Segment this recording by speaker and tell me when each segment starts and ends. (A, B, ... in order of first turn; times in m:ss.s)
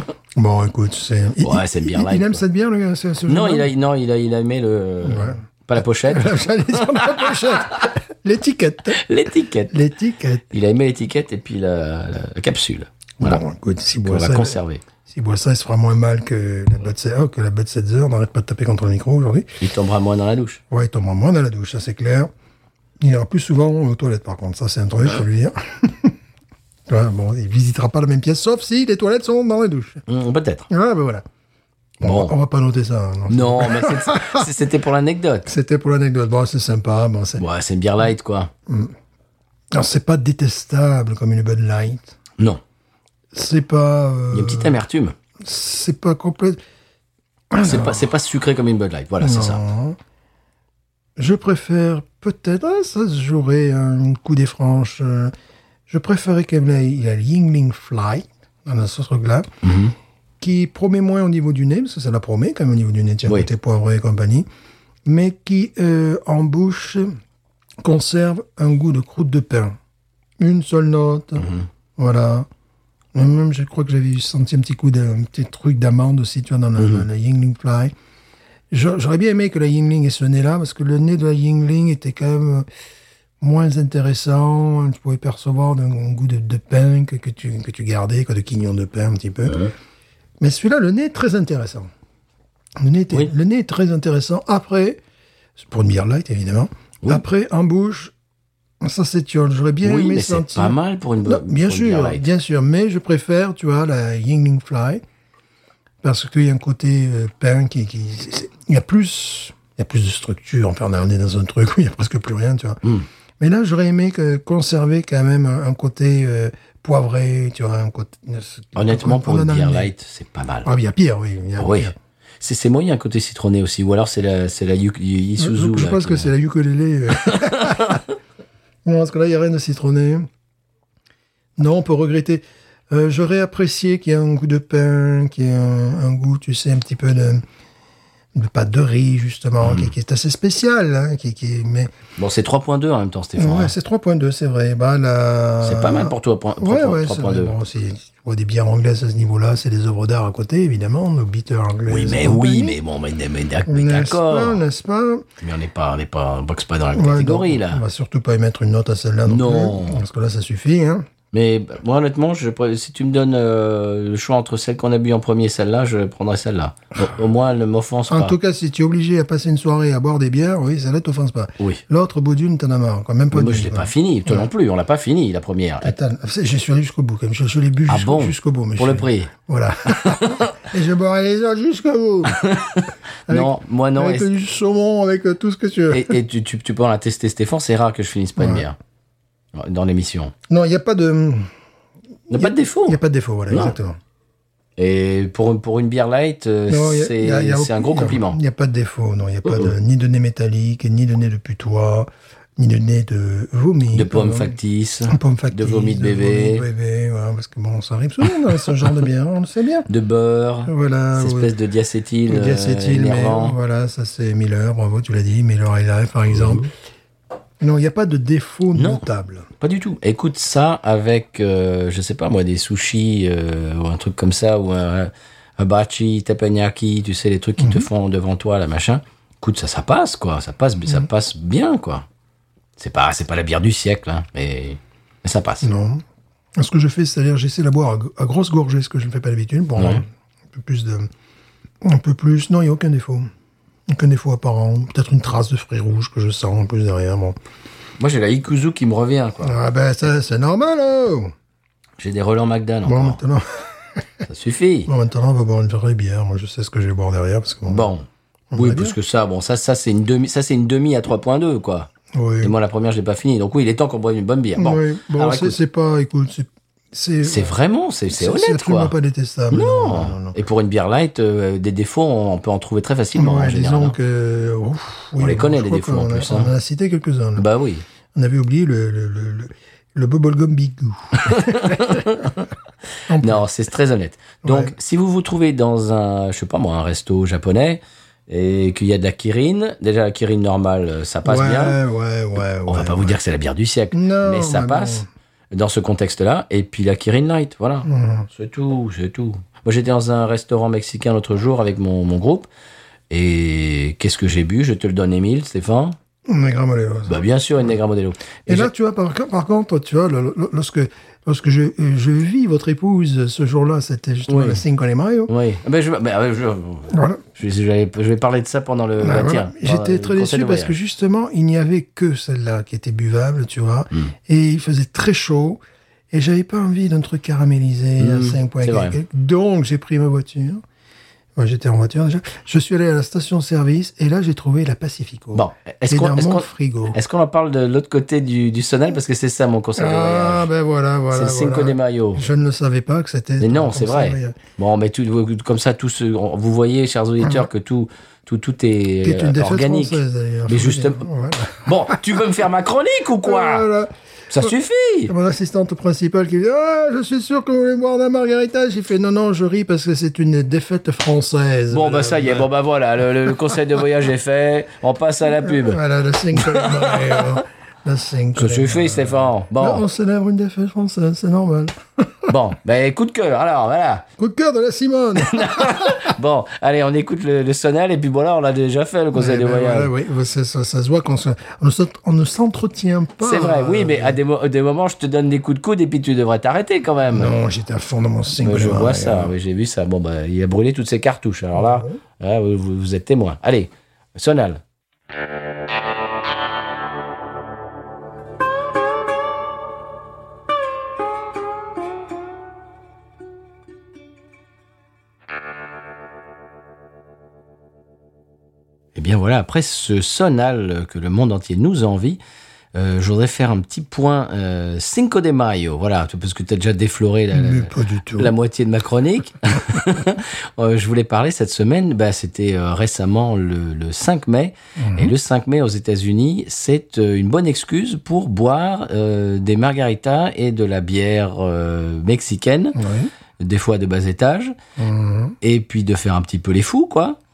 0:00.3-0:03.7 A
0:01.4-0:02.4 B
0:03.3-0:06.3 B
0:05.0-0:09.0 A
0:08.9-0:09.7 B
0:09.7-0:10.4 A
0:10.5-0:13.4 B
0:13.2-0:19.5 A
0:14.0-0:14.8 B
0:19.6-0:20.6 B
0:20.7-0:22.3 A
0:23.0-0:26.2 A
0:26.9-0:30.0 A
0:30.1-0:30.7 B
0:30.7-0:31.2 A
0:32.0-0:34.5 A
0:32.0-0:32.3 B
0:33.3-0:35.5 B
0:35.4-0:37.4 A
0:37.4-0:38.5 B
0:38.7-0:38.9 A
0:39.7-0:42.2 A
0:43.3-0:44.8 A
0:44.3-0:45.2 B
0:45.4-0:46.6 A
0:47.5-0:48.0 A
0:47.6-0:49.6 B
0:49.2-0:50.0 A
0:51.2-0:55.3 A
0:55.9-0:59.5 A
0:59.6-0:59.9 B
1:00.4-1:04.5 A
1:05.0-1:07.2 A
1:07.8-1:09.8 A
1:10.4-1:12.5 A
1:11.4-1:11.7 B
1:13.1-1:17.9 A
1:16.8-1:17.0 B
1:18.7-1:22.7 A
1:23.4-1:29.6 A
1:30.4-1:31.9 A
1:32.8-1:35.0 A
1:35.6-1:38.1 A
1:38.8-1:45.0 A
1:39.8-1:42.2 B
1:46.0-1:52.8 A
1:53.4-1:59.9 A
1:58.7-2:00.7 B
2:00.6-2:01.9 A
2:01.6-2:06.3 B
2:05.4-2:08.0 A
2:07.2-2:08.0 B
2:08.8-2:10.3 A
2:11.6-2:17.4 A
2:18.3-2:21.9 A
2:19.6-2:19.9 B
2:22.2-2:23.7 B
2:23.4-2:32.8 A
2:25.6-2:27.5 B
2:31.9-2:34.6 B
2:33.7-2:35.2 A
2:35.4-2:37.8 B
2:36.9-2:41.1 A
2:39.2-2:40.0 B
2:41.3-2:48.3 B
2:48.1-2:54.5 A
2:53.3-2:55.9 B
2:55.8-3:02.4 A
2:57.9-2:59.3 B
3:00.0-3:00.5 B
3:02.3-3:04.3 B
3:03.3-3:06.2 A
3:05.9-3:08.8 B
3:08.4-3:08.6 A
3:09.5-3:10.3 B
3:10.5-3:11.5 A
3:12.3-3:13.0 B
3:12.3-3:14.0 A
3:13.5-3:13.8 B
3:14.8-3:18.4 B
3:16.7-3:24.5 A
3:19.4-3:19.7 B
3:23.9-3:26.6 B
3:25.1-3:29.9 A
3:29.9-3:33.6 B
3:30.6-3:31.5 A
3:32.3-3:36.7 A
3:36.4-3:36.7 B
3:37.6-3:39.5 A
3:38.7-3:39.0 B
3:39.6-3:52.0 B
3:47.6-3:47.9 A
3:52.8-3:55.7 B
3:55.6-3:56.0 A
3:56.6-4:01.1 A
3:59.8-4:00.0 B
4:01.8-4:03.3 A
4:03.9-4:07.4 A
4:08.0-4:09.6 B
4:09.4-4:11.3 A
4:12.0-4:13.2 B
4:12.8-4:14.0 A
4:14.3-4:14.9 B
4:14.9-4:17.9 A
4:17.7-4:21.9 B
4:18.5-4:18.9 A
4:22.1-4:22.5 A
4:22.4-4:25.6 B
4:24.6-4:27.5 A
4:27.2-4:28.9 B
4:28.1-4:30.4 A
4:29.5-4:34.0 B
4:33.1-4:37.4 A
4:35.2-4:36.5 B
4:37.4-4:37.8 B
4:38.1-4:42.0 A
4:41.2-4:42.5 B
4:43.1-4:43.4 A
4:43.2-4:51.8 B
4:44.4-4:44.7 A
4:51.2-4:53.2 A
4:52.7-5:02.5 B
4:53.9-4:55.1 A
4:57.8-4:58.3 A
5:03.1-5:06.0 B
5:06.2-5:07.2 A
5:07.1-5:08.7 B
5:08.5-5:15.3 A
5:14.3-5:14.6 B
5:15.3-5:20.7 B
5:16.9-5:17.2 A
5:19.0-5:25.6 A
5:26.1-5:30.6 A
5:28.0-5:29.0 B
5:31.4-5:37.0 A
5:35.3-5:40.5 B
5:39.8-5:44.4 A
5:41.1-5:42.2 B
5:43.4-5:51.0 B
5:49.0-5:52.2 A
5:51.6-5:53.7 B
5:53.2-5:54.5 A
5:54.3-5:55.1 B
5:55.1-6:02.5 A
6:01.7-6:05.8 B
6:05.4-6:12.3 A
6:06.3-6:07.3 B
6:08.4-6:09.8 B
6:12.3-6:14.0 B
6:14.2-6:16.1 A
6:15.2-6:19.9 B
6:19.1-6:24.2 A
6:23.2-6:27.3 B
6:27.1-6:29.3 A
6:28.4-6:34.6 B
6:31.5-6:32.0 A
6:48.9-6:52.2 B
6:52.7-7:12.8 B
6:57.3-6:58.3 A
7:04.8-7:05.1 A
7:12.8-7:13.1 A
7:13.4-7:14.5 B
7:14.8-7:15.4 A
7:15.4-7:17.2 B